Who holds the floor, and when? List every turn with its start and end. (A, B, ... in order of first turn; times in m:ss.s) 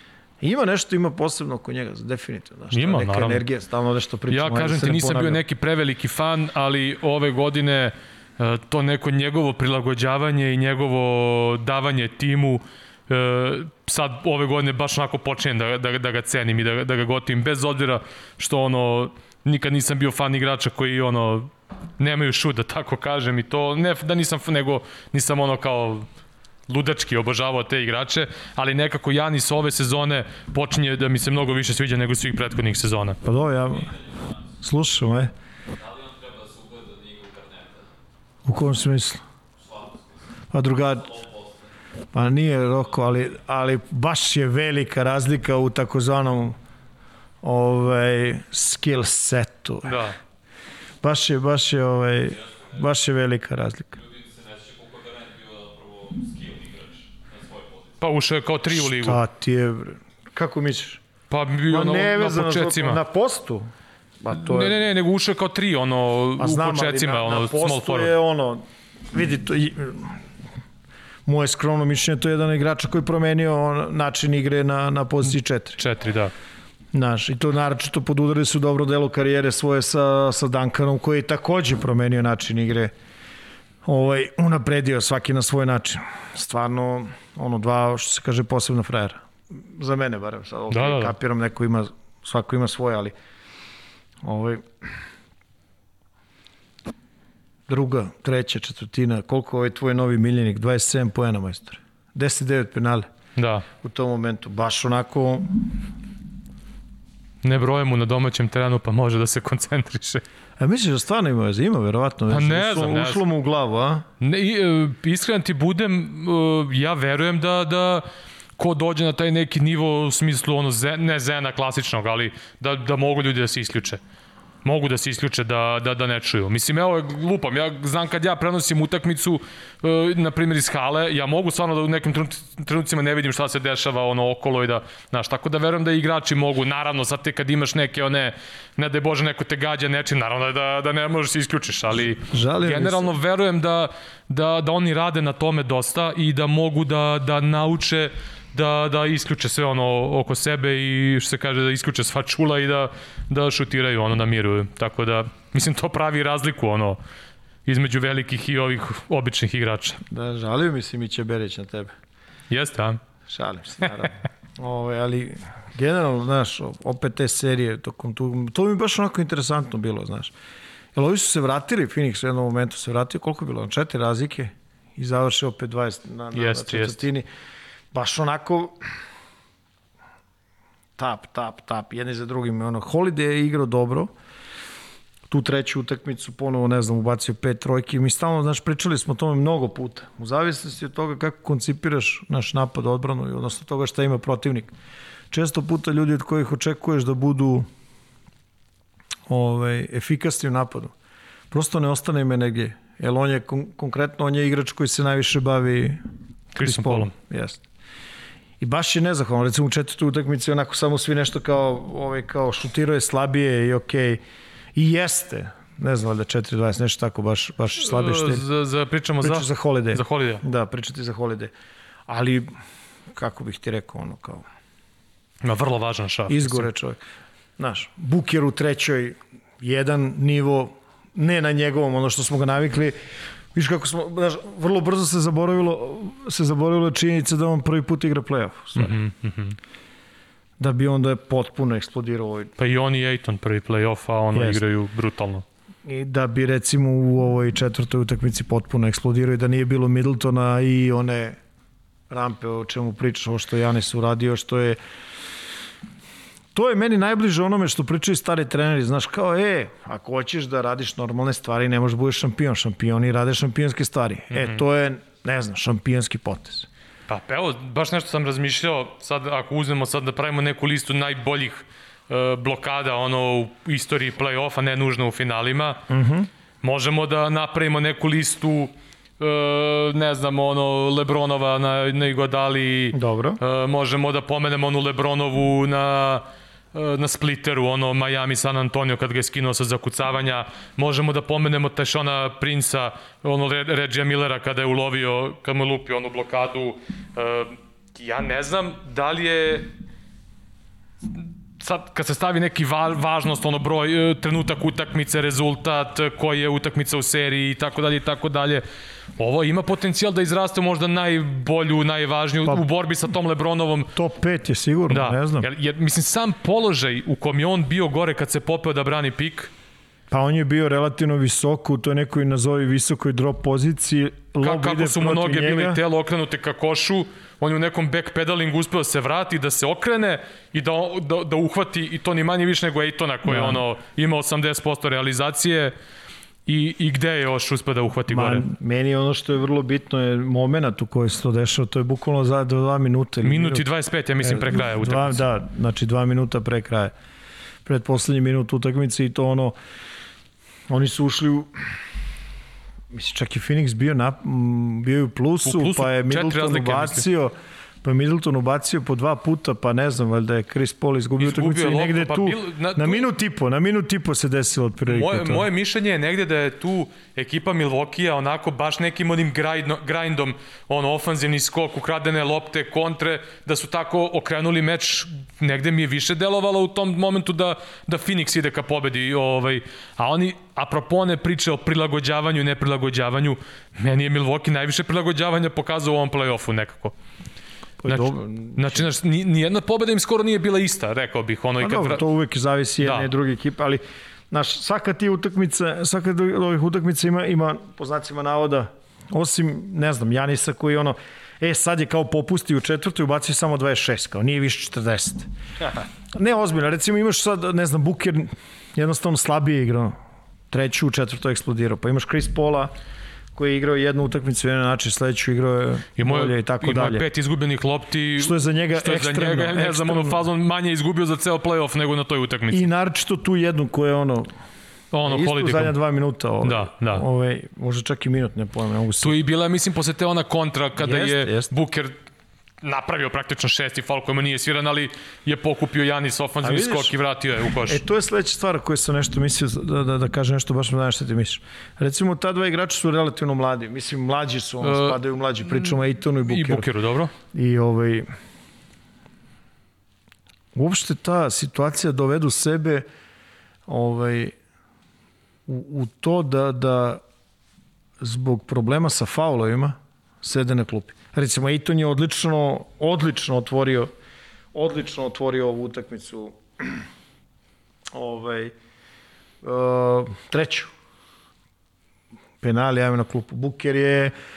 0:00.4-0:05.4 A
0:02.7-0:03.4 B
0:04.3-0:26.1 B
0:26.7-0:33.2 B
0:33.2-0:33.9 A
0:33.8-0:34.3 C
0:34.6-0:35.3 A
0:35.7-0:37.9 C
0:38.4-0:39.2 A
0:39.6-0:40.0 C
0:40.5-0:41.1 A
0:41.1-0:41.5 C
0:42.1-0:46.6 A
0:47.4-0:50.0 A
0:49.8-0:50.2 B
0:51.0-0:54.0 A
0:54.0-0:58.0 C
0:58.0-0:59.2 B
0:58.7-1:01.0 A
1:01.3-1:03.0 B
1:01.7-1:03.7 A
1:04.2-1:04.8 A
1:04.3-1:08.1 B
1:06.4-1:10.2 A
1:11.2-1:15.8 A
1:15.8-1:16.3 B
1:16.9-1:22.9 A
1:23.8-1:33.1 A
1:30.7-1:31.1 B
1:34.2-1:34.8 A
1:37.7-1:43.1 A
1:43.4-1:43.6 B
1:43.8-1:45.7 A
1:47.4-1:50.2 B
1:50.6-1:54.0 A
1:52.3-1:53.2 B
1:54.2-1:58.0 B
1:58.6-2:04.0 B
2:04.6-2:37.0 B
2:22.3-2:23.1 A
2:37.6-2:40.0 B
2:40.1-2:41.9 A
2:42.5-2:43.0 B
2:43.3-2:50.3 A
2:50.9-2:57.2 A
2:56.3-2:57.0 B
2:57.9-2:58.8 A
3:01.0-3:04.1 A
3:05.3-3:14.7 A
3:15.3-3:17.7 A
3:19.3-3:20.9 A
3:21.5-3:26.0 A
3:26.5-3:27.1 B
3:26.6-3:27.6 A
3:28.6-3:34.2 A
3:34.7-3:38.4 A
3:37.8-3:40.4 B
3:39.2-3:41.5 A
3:42.1-3:42.5 A
3:43.1-3:44.4 A
3:45.4-3:46.7 B
3:46.3-3:47.0 A
3:47.6-3:53.0 A
3:53.5-3:59.0 A
3:58.8-3:59.6 B
4:00.6-4:02.5 A
4:02.6-4:05.4 B
4:04.3-4:04.6 A
4:05.8-4:11.4 A
4:12.1-4:14.8 A
4:16.5-4:26.7 A
4:24.3-4:24.6 B
4:27.1-4:35.8 B
4:35.9-4:36.3 A
4:36.6-4:59.7 B
4:42.9-4:43.4 A
5:01.1-5:08.6 B
5:09.2-5:13.9 B
5:13.9-5:15.5 A
5:14.9-5:19.5 B
5:20.1-5:25.8 A
5:24.4-5:35.7 B
5:33.2-5:33.6 A
5:36.4-5:38.4 B
5:38.1-5:43.6 A
5:43.2-5:45.2 B
5:44.2-5:46.9 A
5:47.6-5:49.6 A
5:50.7-5:51.5 A
5:52.9-6:05.4 A
5:55.4-5:57.0 B
6:01.2-6:03.1 B
6:04.8-6:26.9 B
6:27.8-6:28.9 A
6:27.9-6:32.0 B
6:31.6-6:50.0 A
6:32.8-6:33.1 B
6:50.5-6:52.7 A
6:53.3-6:57.0 A
6:56.0-7:02.7 B
6:58.2-7:00.2 A
7:02.5-7:04.3 A
7:04.9-7:05.7 B
7:05.0-7:09.2 A
7:06.4-7:07.0 B
7:09.0-7:11.9 B
7:10.8-7:11.5 A
7:12.6-7:17.8 B
7:16.4-7:16.9 A
7:17.5-7:26.7 A
7:24.6-7:27.1 B
7:27.3-7:28.1 A
7:30.5-7:32.8 A
7:33.7-7:34.3 A
7:35.5-7:37.0 A
7:38.0-7:43.9 A
7:44.5-7:46.9 A
7:47.9-7:48.5 A
7:49.4-7:50.7 A
7:52.4-7:54.1 A